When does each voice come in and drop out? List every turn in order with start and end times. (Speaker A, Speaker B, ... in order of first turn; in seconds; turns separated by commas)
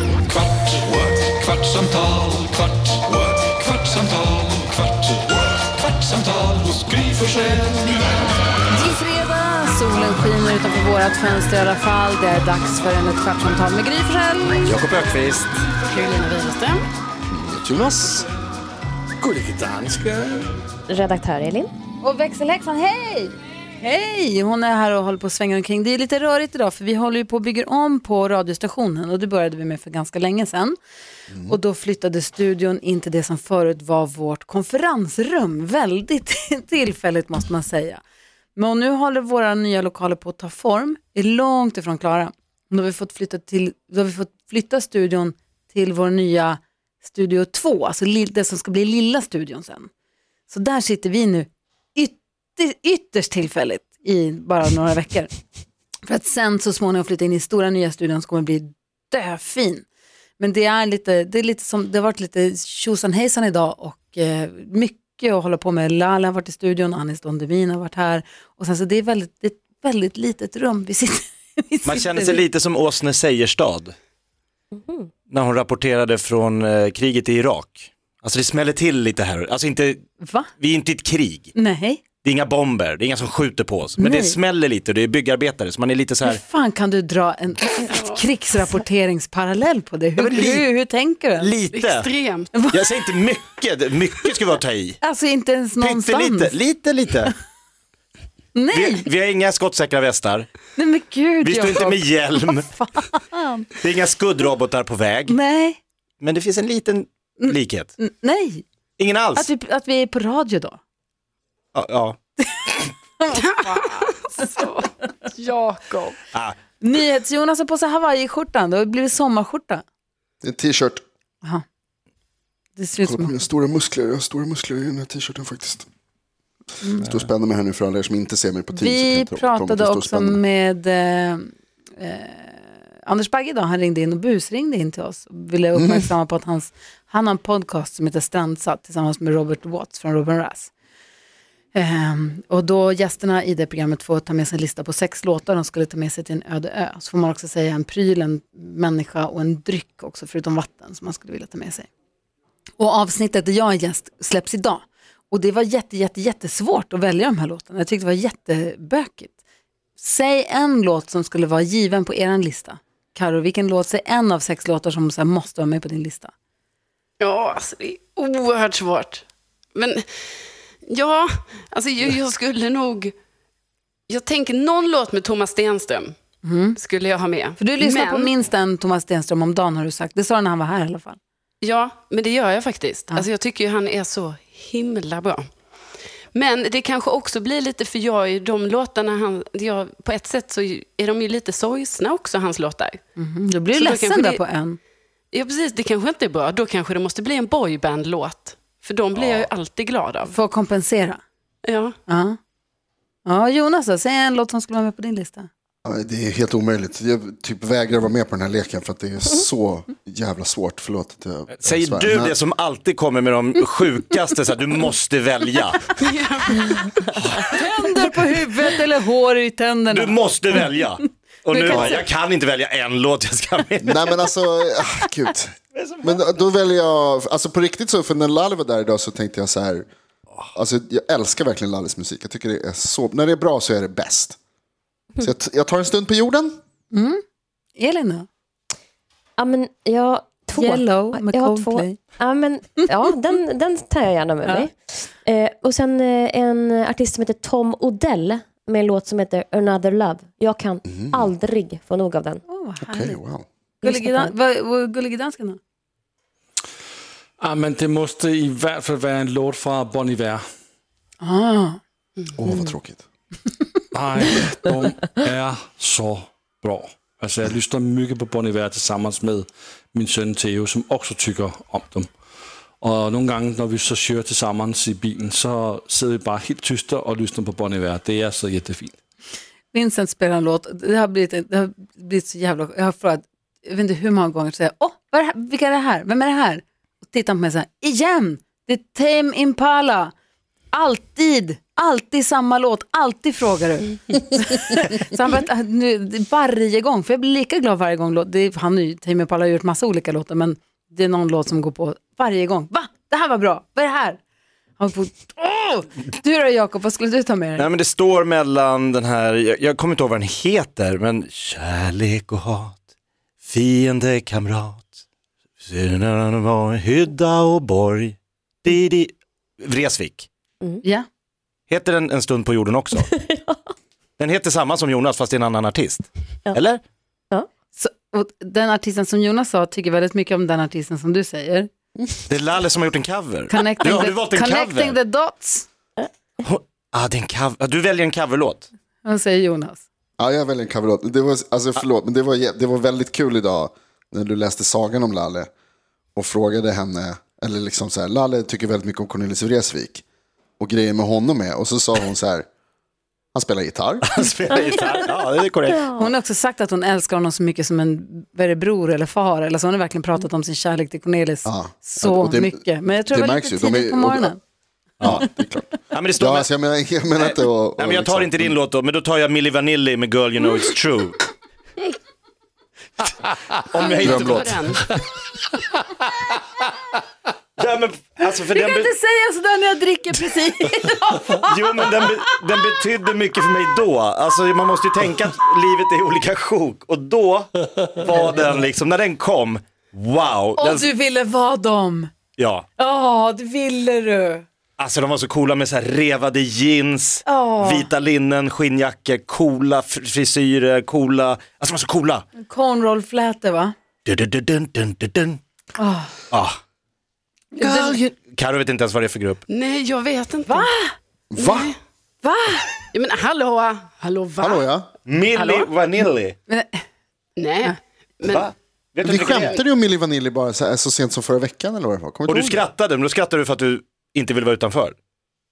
Speaker A: 0.7-2.1, Speaker B: 2.2-2.5, Speaker A: 2.9-7.8, Speaker C: 8.7-14.8, Speaker D: 14.7-15.5, Speaker E: 15.8-16.8, Speaker F: 17.3-18.3, Speaker B: 19.2-20.4, Speaker G: 20.9-21.7, Speaker C: 22.0-30.8, Speaker C: 31.5-38.0, Speaker C: 38.5-49.9, Speaker C: 50.5-55.3, Speaker C: 56.0-59.8, Speaker C: 60.4-72.4, Speaker D: 71.8-73.9, Speaker G: 74.8-75.1, Speaker D: 75.3-80.0, Speaker C: 80.2-80.5, Speaker D: 80.6-81.5, Speaker C: 81.5-82.0, Speaker D: 82.2-86.4, Speaker C: 84.0-84.4, Speaker C: 86.2-91.5, Speaker E: 87.9-88.2, Speaker D: 90.2-90.7, Speaker D: 91.4-92.1, Speaker E: 91.7-92.5, Speaker D: 92.7-95.0, Speaker C: 95.0-96.5, Speaker D: 95.8-97.3, Speaker C: 98.5-99.0, Speaker D: 98.7-100.5, Speaker C: 100.8-103.8, Speaker D: 101.4-102.7, Speaker D: 103.8-105.4, Speaker C: 105.3-105.8, Speaker D: 106.2-107.9, Speaker C: 107.4-108.6, Speaker D: 109.0-109.5, Speaker C: 109.3-110.8, Speaker D: 111.7-112.2, Speaker C: 112.5-114.1, Speaker E: 113.4-116.2, Speaker D: 116.3-116.6, Speaker C: 116.8-119.8, Speaker F: 120.4-121.0, Speaker C: 122.8-123.4, Speaker F: 123.0-125.8, Speaker F: 127.0-130.4, Speaker C: 128.7-140.7, Speaker F: 135.7-136.1, Speaker C: 141.7-151.9, Speaker C: 152.8-159.3, Speaker C: 160.0-166.3, Speaker E: 167.2-170.0, Speaker E: 170.9-173.1, Speaker E: 174.1-176.2, Speaker C: 176.4-176.8, Speaker E: 176.7-178.3, Speaker C: 177.6-181.2, Speaker E: 181.6-185.5, Speaker E: 186.3-193.0, Speaker C: 193.2-194.8, Speaker E: 193.7-194.4, Speaker E: 195.3-200.3, Speaker C: 200.3-201.2, Speaker E: 201.6-201.9, Speaker C: 202.1-202.4, Speaker C: 203.2-205.5, Speaker F: 205.8-212.3, Speaker D: 211.5-216.0, Speaker E: 216.0-217.2, Speaker C: 217.4-220.8, Speaker D: 219.9-224.2, Speaker C: 221.5-222.0, Speaker F: 221.7-222.0, Speaker F: 223.8-229.8, Speaker D: 225.7-226.4, Speaker F: 230.5-234.4, Speaker F: 235.2-236.6, Speaker C: 236.9-237.2, Speaker C: 237.7-238.3, Speaker G: 239.4-252.4, Speaker C: 240.5-242.0, Speaker F: 250.8-251.3, Speaker C: 252.5-253.2, Speaker F: 252.8-253.4, Speaker G: 253.8-254.3, Speaker C: 253.8-255.6, Speaker B: 257.4-260.4, Speaker C: 261.2-261.8, Speaker F: 262.4-263.0, Speaker B: 263.9-272.1, Speaker B: 272.8-278.9, Speaker C: 279.7-290.1, Speaker C: 290.7-304.2, Speaker C: 304.8-307.7, Speaker D: 307.6-312.8, Speaker D: 313.4-315.0, Speaker D: 315.6-320.3, Speaker D: 321.7-323.1, Speaker G: 323.1-323.6, Speaker D: 324.2-326.8, Speaker C: 327.7-331.7, Speaker D: 332.3-335.0, Speaker C: 333.5-335.7, Speaker D: 336.4-338.7, Speaker C: 339.0-339.8, Speaker F: 340.2-345.5, Speaker F: 346.1-350.0, Speaker F: 350.6-352.4, Speaker F: 353.3-354.2, Speaker D: 354.1-355.9, Speaker G: 355.8-356.1, Speaker C: 355.9-364.4, Speaker F: 361.4-364.3, Speaker D: 365.0-365.2, Speaker F: 365.0-368.6, Speaker D: 365.9-366.5, Speaker D: 367.1-371.2, Speaker D: 373.7-374.6, Speaker E: 373.8-374.9, Speaker F: 374.0-374.6, Speaker D: 377.6-378.9, Speaker C: 378.5-381.8, Speaker D: 381.4-390.9, Speaker C: 390.6-392.1, Speaker D: 392.4-392.6, Speaker C: 392.8-394.4, Speaker D: 394.8-402.2, Speaker C: 397.2-397.9, Speaker C: 402.4-403.7, Speaker D: 404.0-405.4, Speaker C: 405.8-406.1, Speaker D: 406.3-406.6, Speaker C: 407.5-408.0, Speaker E: 407.6-407.8, Speaker D: 407.7-409.4, Speaker E: 409.5-410.7, Speaker C: 410.5-410.9, Speaker F: 411.3-411.7, Speaker E: 411.4-411.8, Speaker C: 412.2-412.7, Speaker E: 412.9-414.6, Speaker F: 414.4-414.9, Speaker D: 415.1-416.4, Speaker E: 415.3-415.7, Speaker C: 416.5-416.8, Speaker E: 417.4-418.5, Speaker D: 418.2-419.6, Speaker F: 419.0-422.6, Speaker D: 422.3-424.9